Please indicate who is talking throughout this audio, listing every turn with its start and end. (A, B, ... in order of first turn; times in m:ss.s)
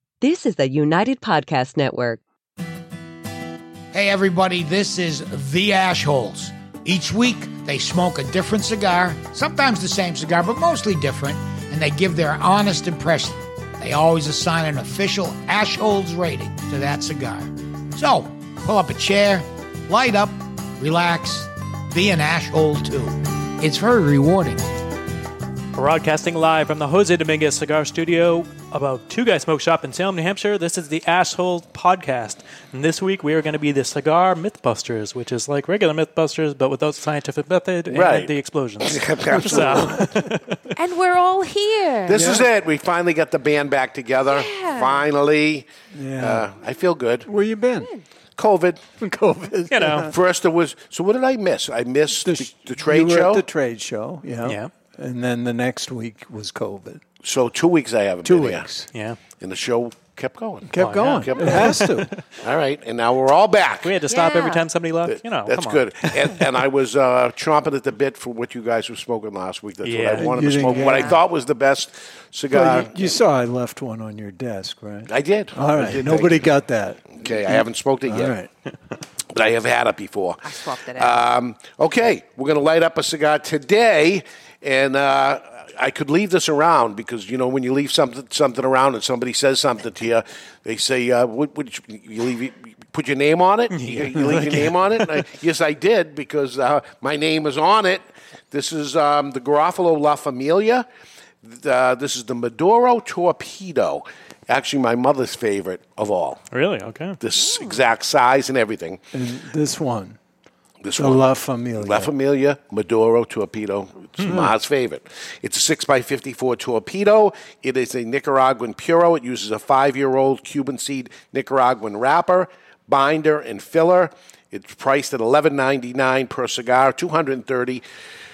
0:00.2-0:02.2 A
0:03.9-0:24.6 B
0:25.8-0:40.6 C
0:37.9-0:40.1 D
0:40.8-0:42.3 E
0:42.1-0:47.3 D
0:42.1-0:42.5 F
0:44.3-0:45.1 E
0:45.9-0:46.5 F
0:47.3-0:47.9 F
0:48.4-0:48.8 D
0:49.0-0:50.1 F
0:49.7-0:50.1 C
0:50.0-0:53.5 D
0:52.2-0:57.0 F
0:54.4-0:54.7 C
0:57.2-0:58.7 D
0:58.2-0:58.9 F
0:58.9-0:59.2 C
0:59.4-1:01.8 D
1:00.7-1:02.1 F
1:00.8-1:02.2 C
1:02.4-1:04.0 D
1:03.8-1:06.4 C
1:04.1-1:04.6 E
1:05.1-1:13.1 D
1:09.8-1:10.3 C
1:10.2-1:11.2 F
1:10.7-1:11.2 E
1:12.5-1:18.5 F
1:15.1-1:16.5 D
1:17.1-1:18.4 D
1:19.3-1:40.9 D
1:20.4-1:21.3 E
1:33.7-1:35.2 C
1:41.4-1:46.4 D
1:46.5-1:47.2 C
1:47.2-1:49.0 D
1:49.1-1:50.2 F
1:50.8-2:07.8 D
1:51.0-1:52.1 F
1:54.2-1:54.5 C